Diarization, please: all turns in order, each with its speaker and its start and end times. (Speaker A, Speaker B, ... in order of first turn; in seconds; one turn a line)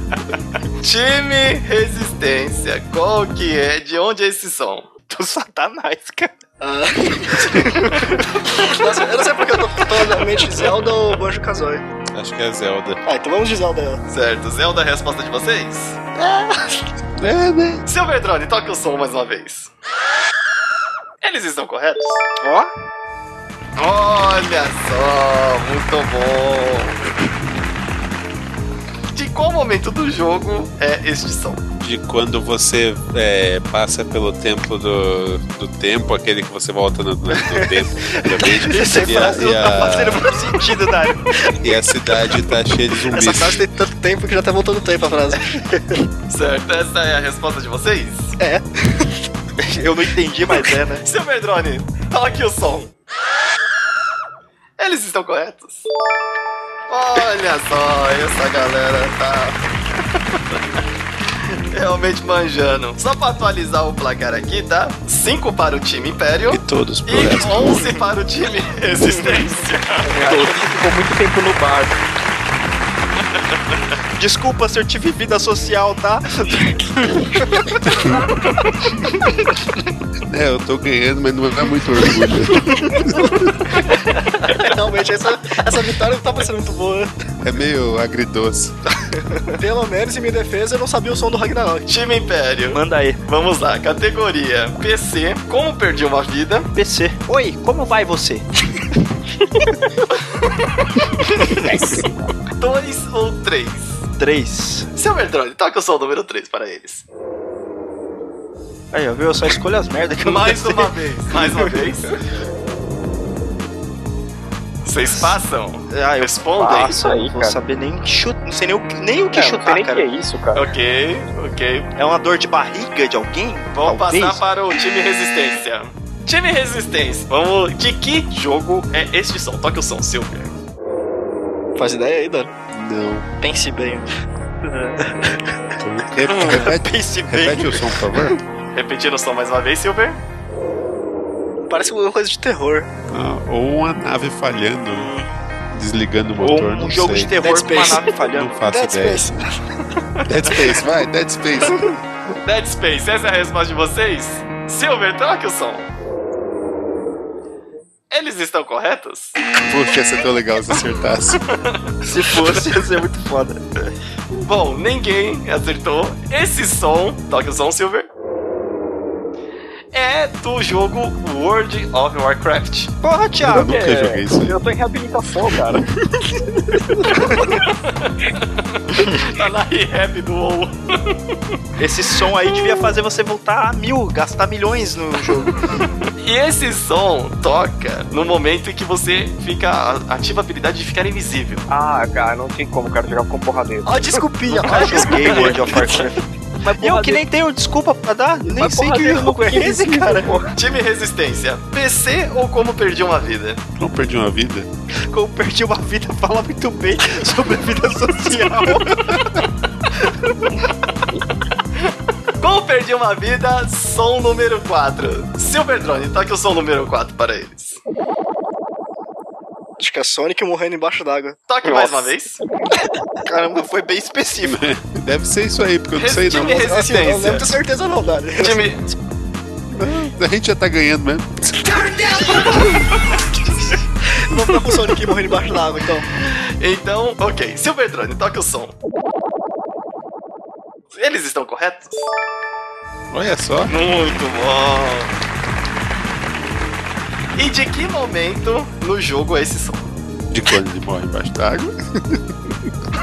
Speaker A: 0.8-4.9
Speaker B: 5.1-6.3
Speaker C: 6.6-11.8
Speaker B: 7.5-8.0
Speaker D: 12.1-13.0
Speaker C: 13.1-14.0
Speaker A: 14.1-16.0
Speaker C: 16.2-16.8
Speaker D: 17.2-17.8
Speaker A: 17.9-19.7
Speaker A: 21.2-22.2
Speaker B: 22.4-22.7
Speaker A: 23.8-27.0
Speaker A: 29.1-31.6
Speaker D: 31.8-40.3
Speaker B: 38.6-41.2
Speaker D: 41.6-43.6
Speaker C: 43.1-46.0
Speaker A: 46.3-48.3
Speaker C: 48.4-49.1
Speaker B: 49.6-51.0
Speaker A: 51.0-52.9
Speaker A: 54.8-55.8
Speaker A: 56.9-59.6
Speaker A: 61.5-70.6
Speaker D: 66.5-67.9
Speaker E: 70.0-72.0
Speaker B: 74.2-77.8
Speaker D: 80.3-83.5
Speaker C: 82.8-87.1
Speaker D: 87.4-88.8
Speaker C: 89.6-91.9
Speaker A: 91.9-96.7
Speaker B: 92.7-93.2
Speaker B: 96.7-98.5
Speaker A: 100.1-100.6
Speaker E: 101.5-102.3
Speaker A: 102.6-104.0
Speaker B: 104.2-104.9
Speaker A: 105.0-107.0
Speaker B: 108.9-111.5
Speaker A: 110.2-112.1
Speaker A: 114.8-117.0
Speaker B: 115.9-120.0
Speaker E: 116.7-117.5
Speaker E: 119.3-120.6
Speaker A: 120.5-121.9
Speaker B: 122.0-124.4
Speaker A: 123.7-130.5
Speaker C: 131.8-132.5
Speaker D: 132.7-133.2
Speaker C: 133.4-134.1
Speaker C: 135.0-135.4
Speaker D: 135.8-138.4
Speaker B: 136.5-137.7
Speaker A: 138.7-140.2
Speaker C: 141.7-142.9
Speaker D: 143.1-145.1
Speaker D: 145.7-147.3
Speaker B: 146.4-148.6
Speaker C: 147.4-149.4
Speaker D: 148.3-149.3
Speaker D: 150.2-152.0
Speaker A: 152.4-155.9
Speaker A: 158.1-159.3
Speaker D: 159.6-161.4
Speaker A: 161.5-162.6
Speaker B: 162.0-163.9
Speaker A: 164.4-168.1
Speaker A: 169.9-172.9
Speaker B: 173.0-173.8
Speaker D: 173.4-174.6
Speaker E: 173.6-175.9
Speaker B: 177.1-177.4
Speaker A: 177.4-181.2
Speaker B: 181.8-185.6
Speaker A: 186.0-191.7
Speaker E: 191.7-196.1
Speaker C: 193.8-195.9
Speaker B: 194.4-200.3
Speaker A: 194.9-195.5
Speaker E: 196.7-197.2
Speaker E: 198.4-200.5
Speaker A: 200.5-203.6
Speaker D: 203.8-204.7
Speaker B: 205.1-209.1
Speaker A: 212.4-217.8
Speaker C: 219.8-221.4
Speaker A: 221.5-222.4
Speaker E: 221.6-222.4
Speaker B: 223.2-224.6
Speaker D: 224.4-226.7
Speaker A: 225.9-227.5
Speaker C: 226.4-228.7
Speaker A: 228.4-228.8
Speaker D: 229.7-232.2
Speaker C: 231.7-232.9
Speaker C: 234.0-236.1
Speaker A: 236.1-238.7
Speaker A: 240.9-242.1
Speaker D: 243.1-243.7
Speaker A: 243.7-245.1
Speaker A: 247.3-249.9
Speaker D: 250.3-252.7